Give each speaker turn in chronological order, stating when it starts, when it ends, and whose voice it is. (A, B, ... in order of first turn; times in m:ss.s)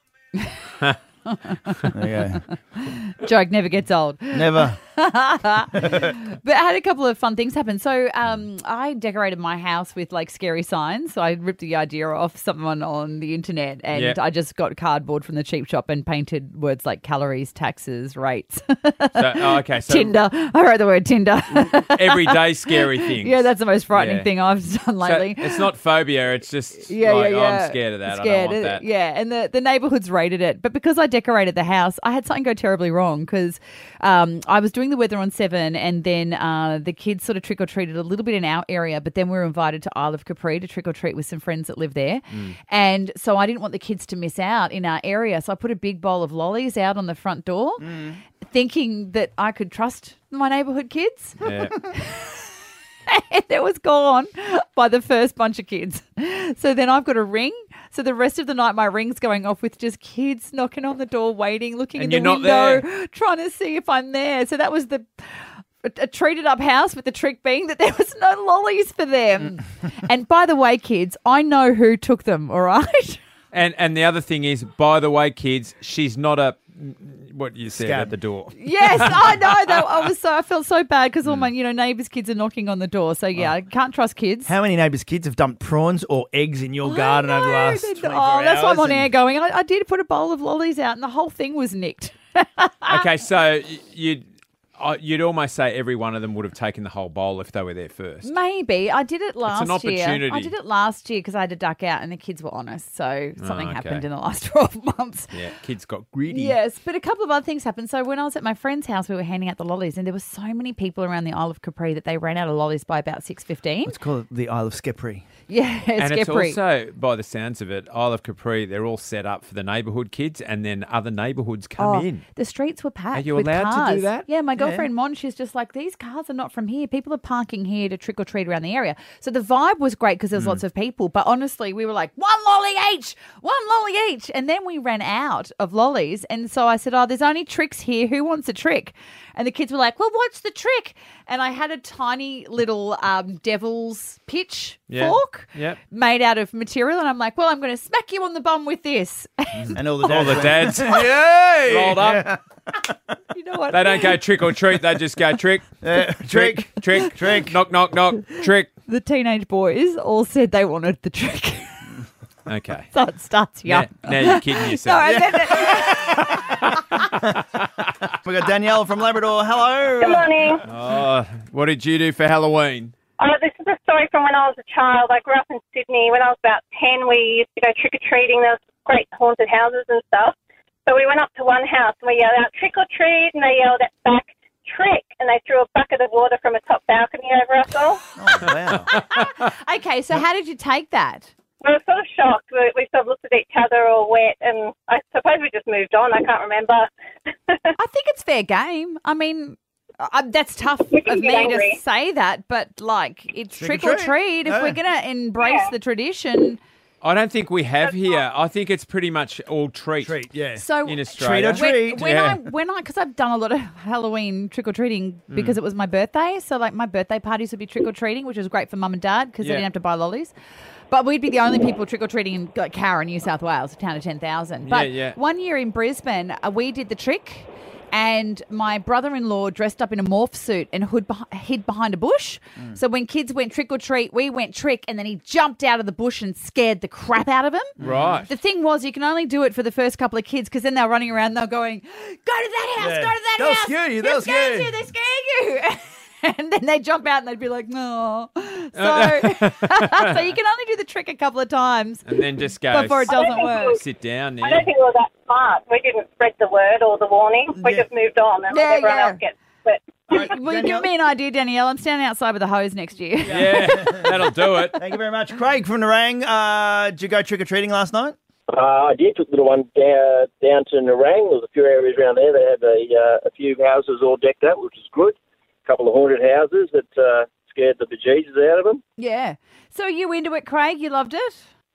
0:00.3-0:02.0 A
0:01.9-0:02.4 B
0:02.7-0:25.7 A
0:04.3-0:04.8 B
0:05.7-0:06.1 B
0:13.9-0:14.2 C
0:19.1-0:20.2 C
0:21.5-0:24.3 C
0:25.0-0:28.8 C
0:26.9-0:52.5 A
0:51.4-0:51.8 C
0:53.1-1:05.1 A
1:02.0-1:02.8 C
1:05.8-1:13.2 A
1:13.5-1:19.8 C
1:17.7-1:18.1 B
1:18.5-1:24.5 A
1:24.5-1:29.1 B
1:26.8-1:33.0 A
1:32.9-1:34.2 C
1:34.8-1:38.3 C
1:38.2-1:45.4 A
1:39.4-1:40.5 C
1:43.4-1:44.0 C
1:45.3-1:46.6 C
1:46.3-1:54.0 A
1:53.8-1:55.2 B
1:55.5-1:56.6 A
1:56.0-2:02.2 C
2:01.8-2:30.4 A
2:03.1-2:04.3 C
2:04.6-2:04.9 B
2:10.4-2:10.6 C
2:24.9-2:25.8 C
2:29.6-2:32.3 C
2:29.7-2:32.9 B
2:33.3-2:34.2 A
2:33.7-2:35.7 C
2:35.8-2:37.6 B
2:36.3-2:38.7 C
2:38.9-2:41.9 A
2:42.5-2:42.9 C
2:42.9-2:46.6 A
2:43.6-2:45.1 C
2:45.0-2:46.5 B
2:46.5-2:48.1 C
2:48.2-2:50.5 B
2:50.0-2:50.6 D
2:50.6-2:52.9 C
2:53.2-3:00.3 D
3:00.8-3:08.0 D
3:08.2-3:08.9 B
3:08.9-3:11.3 A
3:11.6-3:16.9 D
3:17.8-3:26.6 A
3:20.9-3:21.8 D
3:23.5-3:24.8 B
3:25.4-3:25.7 D
3:27.0-3:30.2 C
3:30.0-3:30.6 B
3:30.6-3:40.3 A
3:30.8-3:32.4 C
3:31.2-3:32.0 B
3:39.4-3:39.7 C
3:40.9-4:13.8 A
3:44.6-3:45.2 C
3:57.8-3:58.2 B
3:57.8-3:58.3 C
4:02.8-4:04.7 B
4:08.8-4:10.2 C
4:12.0-4:14.7 C
4:13.1-4:13.8 D
4:14.4-4:20.1 D
4:17.5-4:17.9 B
4:18.5-4:19.2 A
4:20.1-4:20.9 B
4:20.1-4:24.2 A
4:23.2-4:24.8 C
4:23.3-4:24.2 B
4:24.8-4:28.2 B
4:28.5-4:38.8 E
4:39.0-4:41.4 A